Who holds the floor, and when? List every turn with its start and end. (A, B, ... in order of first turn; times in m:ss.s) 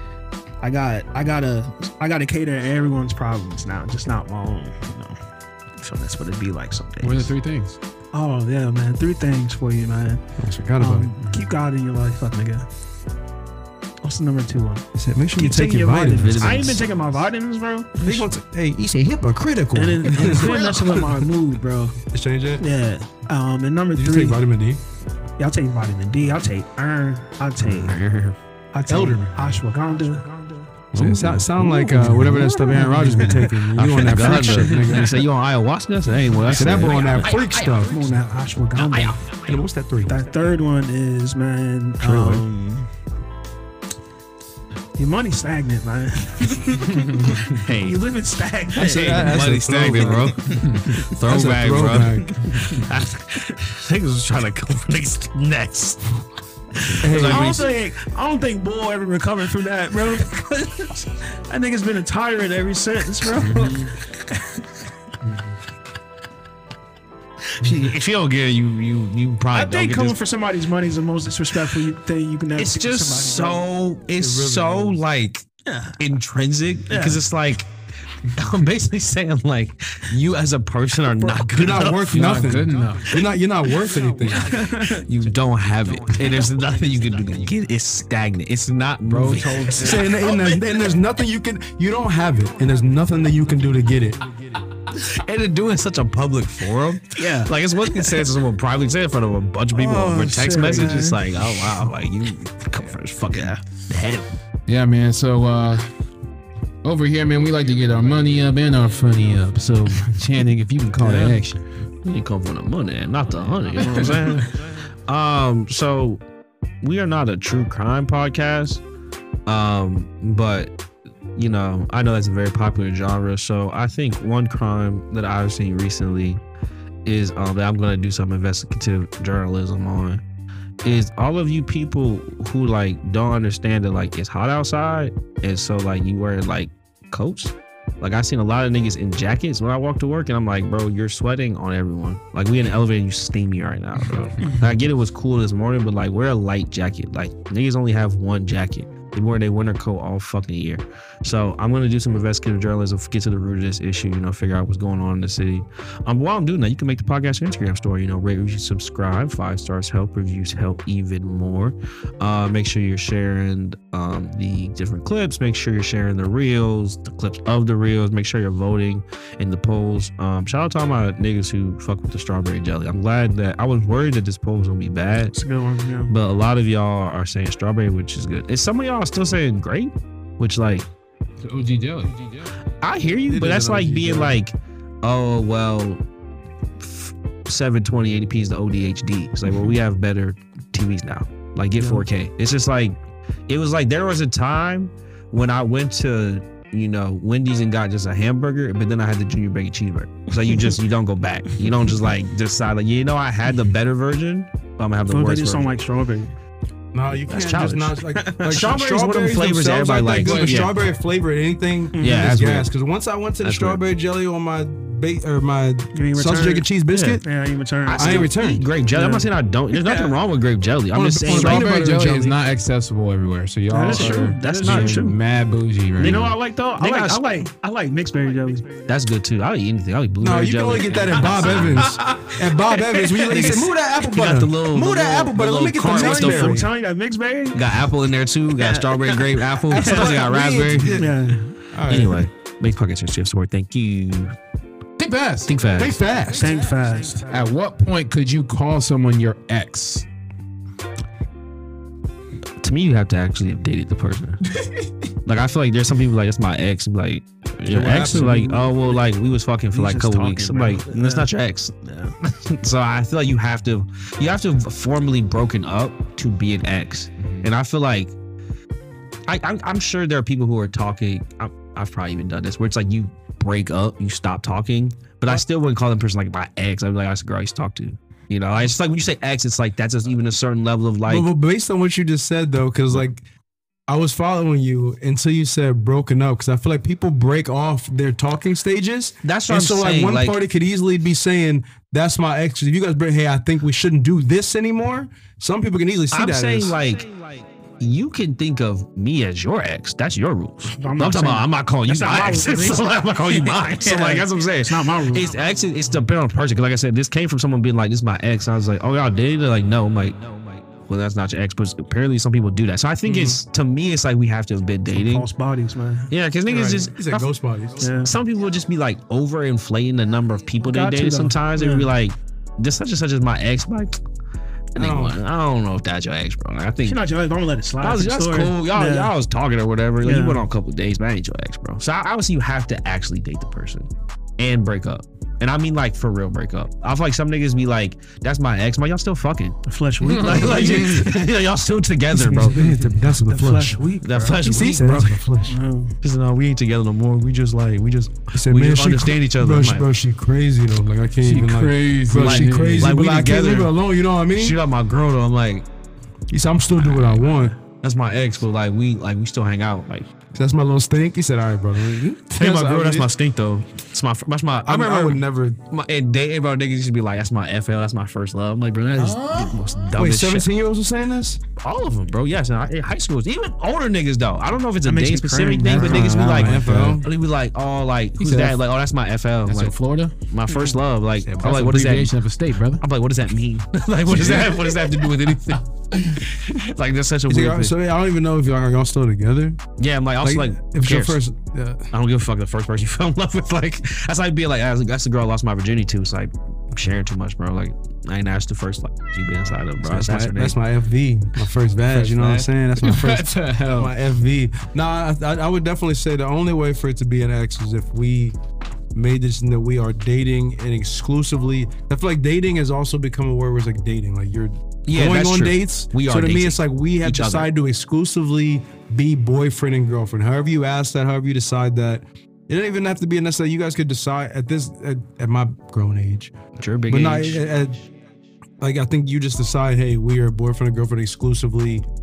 0:00.6-0:05.2 A
0:05.8-0:07.3 A
0:07.0-0:07.8 B
0:08.1-0:10.2 A
0:10.4-0:11.1 C
0:10.8-0:12.7 A
0:14.0-0:18.3 A
0:14.9-0:16.8 C
0:16.2-0:16.8 D
0:18.0-0:21.1 C
0:19.7-0:22.0 A
0:20.2-0:21.1 D
0:22.1-0:22.6 C
0:22.6-0:24.4 A
0:23.9-0:24.8 C
0:25.4-0:28.0 A
0:27.6-0:28.4 D
0:28.7-0:30.7 A
0:28.8-0:29.6 C
0:30.9-0:35.3 C
0:30.9-0:37.9 D
0:33.0-0:33.4 A
0:36.4-0:37.6 B
0:36.5-0:37.9 C
0:37.8-0:39.3 A
0:38.7-0:39.6 D
0:39.4-0:40.2 C
0:40.0-0:42.9 A
0:42.0-0:42.4 C
0:45.0-0:51.0 A
0:47.6-0:48.0 D
0:48.7-0:50.5 C
0:48.7-0:56.2 D
0:50.6-0:51.0 B
0:51.1-0:52.4 C
0:56.7-0:57.8 D
0:57.0-0:57.6 C
0:57.1-1:04.8 A
1:05.2-1:05.5 B
1:07.6-1:10.2 D
1:09.5-1:13.6 A
1:12.6-1:15.5 D
1:14.2-1:15.0 C
1:15.6-1:16.0 A
1:16.0-1:17.7 D
1:16.9-1:17.2 A
1:18.2-1:22.5 D
1:21.2-1:21.5 A
1:21.5-1:24.6 C
1:22.1-1:23.2 B
1:24.4-1:25.0 A
1:24.7-1:30.2 D
1:29.0-1:29.8 B
1:29.4-1:30.6 A
1:29.8-1:34.2 C
1:34.9-1:44.3 D
1:37.2-1:38.3 A
1:39.7-1:41.2 A
1:43.3-1:43.6 A
1:44.7-1:45.9 B
1:46.8-1:51.6 B
1:51.0-1:51.4 A
1:52.0-1:56.2 D
1:53.8-1:54.5 A
1:56.8-1:58.8 D
1:59.4-2:00.7 D
2:01.4-2:06.4 D
2:07.0-2:10.2 D
2:10.8-2:55.4 D
2:55.3-2:56.1 A
2:56.1-3:00.9 D
3:01.4-3:02.3 B
3:02.8-3:06.0 D
3:03.3-3:04.4 C
3:06.8-3:13.0 D
3:11.8-3:12.0 A
3:13.5-3:25.8 D
3:20.5-3:20.8 A
3:25.1-3:26.3 A
3:26.9-3:37.2 C
3:27.3-3:30.8 D
3:28.1-3:28.7 A
3:30.2-3:30.7 B
3:31.9-3:32.4 A
3:32.0-3:32.7 D
3:33.4-3:33.8 D
3:35.9-3:36.7 A
3:36.9-3:37.2 D
3:37.2-3:38.3 A
3:37.8-3:41.9 D
3:37.9-3:38.7 C
3:38.9-3:40.2 A
3:40.9-3:42.4 C
3:41.3-3:46.3 B
3:43.7-3:45.2 A
3:43.9-3:45.2 D
3:46.0-3:47.4 D
3:46.0-3:48.8 A
3:48.8-3:52.0 D
3:50.2-3:56.7 C
3:50.8-3:51.3 B
3:51.4-3:53.7 A
3:53.3-3:56.7 D
3:55.8-3:57.8 A
3:57.5-4:01.0 D
3:58.5-4:00.3 A
3:59.7-4:02.3 C
4:00.8-4:01.5 A
4:01.9-4:04.3 D
4:05.0-4:05.5 B
4:05.5-4:06.0 D
4:05.8-4:06.7 C
4:06.3-4:07.3 A
4:07.2-4:10.1 B
4:12.6-4:14.4 D
4:14.6-4:14.8 B
4:15.2-4:28.1 D
4:17.6-4:18.7 C
4:19.7-4:21.3 A
4:21.8-4:22.1 A
4:27.2-4:27.5 B
4:29.3-4:41.3 D
4:41.0-4:43.2 C
4:43.9-4:56.8 C
4:49.2-4:50.4 D
4:56.1-5:15.3 D
5:00.7-5:05.4 A
5:14.9-5:16.1 A
5:16.1-5:17.3 D
5:16.4-5:17.9 C
5:17.8-5:18.1 A
5:17.8-5:24.0 D
5:20.6-5:21.9 A
5:24.7-5:27.0 D
5:24.8-5:25.2 C
5:26.8-5:29.1 A
5:27.8-5:42.7 D
5:30.0-5:30.4 A
5:39.6-5:41.2 A
5:40.0-5:41.1 B
5:42.2-5:44.7 A
5:42.3-5:43.8 C
5:44.0-5:45.3 D
5:44.4-5:45.6 C
5:45.4-5:45.9 A
5:46.0-5:49.9 D
5:48.3-5:54.6 C
5:51.2-5:52.9 B
5:52.1-5:53.7 D
5:54.3-5:55.6 D
5:56.3-5:57.5 C
5:56.7-6:00.1 D
6:00.3-6:03.1 C
6:02.3-6:10.5 D
6:04.6-6:05.6 C
6:09.0-6:09.6 B
6:09.9-6:11.4 C
6:11.6-6:22.1 D
6:14.8-6:16.1 A
6:15.6-6:17.1 C
6:15.8-6:17.0 B
6:18.2-6:18.6 C
6:19.4-6:20.1 B
6:21.4-6:22.8 B
6:22.8-6:27.7 D
6:24.1-6:24.6 C
6:27.3-6:29.6 C
6:29.8-6:31.2 D
6:30.2-6:31.9 C
6:31.9-6:40.6 D
6:39.8-6:48.4 C
6:41.9-6:43.9 B
6:42.0-6:42.4 D
6:48.9-7:06.4 C
6:54.9-6:57.5 D
7:06.6-7:07.5 D
7:06.9-7:07.8 C
7:08.6-7:11.8 C